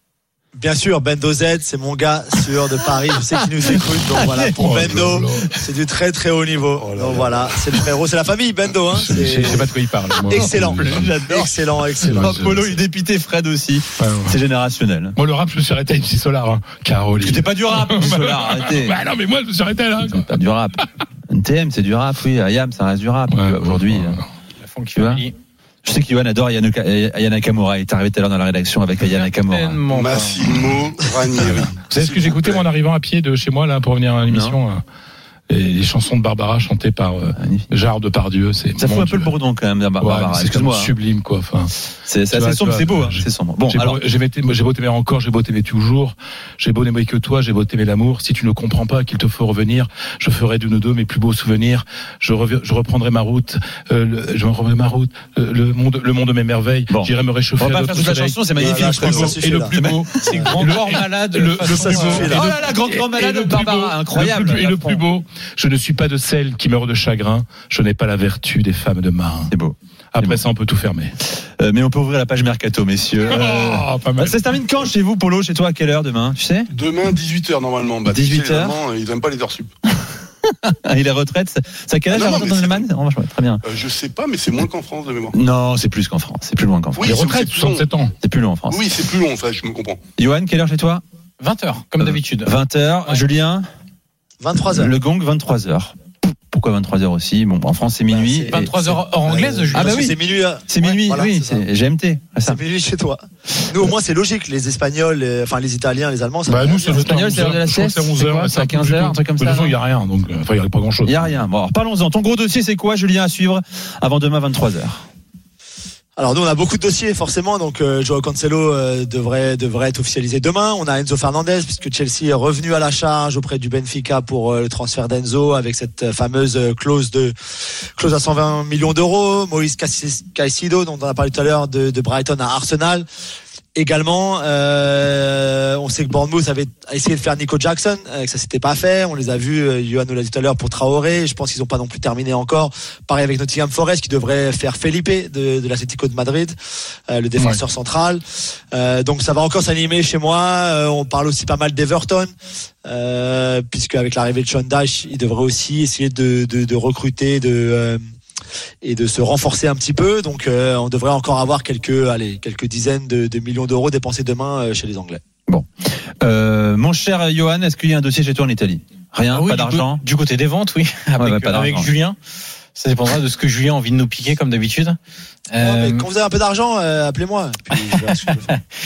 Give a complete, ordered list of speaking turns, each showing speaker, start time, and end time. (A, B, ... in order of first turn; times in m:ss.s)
0:00.5-0:09.7 A
0:04.0-0:05.0 B
0:04.5-0:05.5 C
0:06.8-0:07.6 D
0:08.9-0:11.1 C
0:10.2-0:12.7 A
0:10.3-0:15.2 B
0:12.0-0:12.7 C
0:14.0-0:14.4 C
0:15.2-0:20.4 C
0:17.2-0:19.0 B
0:20.1-0:24.2 B
0:23.3-0:24.2 C
0:24.6-0:25.3 E
0:25.0-0:25.2 B
0:25.8-0:29.8 B
0:29.1-0:30.6 E
0:29.9-0:32.7 D
0:31.4-0:34.8 C
0:34.3-0:34.6 B
0:35.5-0:39.4 C
0:37.4-0:37.7 B
0:38.8-0:40.9 B
0:40.0-0:41.7 C
0:42.0-0:44.0 B
0:42.3-0:58.4 C
0:56.9-1:01.1 B
0:58.6-0:59.8 A
0:59.2-1:09.5 C
1:00.2-1:02.5 E
1:01.6-1:02.4 A
1:01.9-1:05.0 B
1:09.5-1:10.4 B
1:10.1-1:11.1 C
1:11.4-1:16.7 B
1:13.2-1:14.4 C
1:16.7-1:19.7 D
1:18.0-1:18.8 B
1:20.6-1:23.6 B
1:22.1-1:22.9 D
1:23.6-1:25.4 D
1:25.3-1:27.2 B
1:27.0-1:27.9 D
1:27.0-1:28.1 C
1:28.2-1:28.9 B
1:28.7-1:30.0 D
1:30.2-1:31.0 B
1:31.4-1:32.5 E
1:32.0-1:33.6 B
1:34.4-1:35.0 A
1:34.7-1:36.0 B
1:36.5-1:38.7 B
1:38.1-1:41.6 A
1:38.5-1:40.1 E
1:39.7-1:42.6 B
1:42.4-1:47.3 A
1:46.5-1:51.4 C
1:46.9-1:49.8 B
1:51.0-1:55.0 B
1:56.2-2:07.3 A
2:08.0-2:13.0 A
2:13.7-2:26.5 A
2:27.1-2:32.3 A
2:32.8-2:38.0 A
2:38.8-2:45.2 A
2:45.5-2:50.0 B
2:49.3-2:52.2 E
2:51.2-2:51.9 B
2:52.7-2:55.0 E
2:55.5-2:56.0 E
2:55.6-2:58.5 A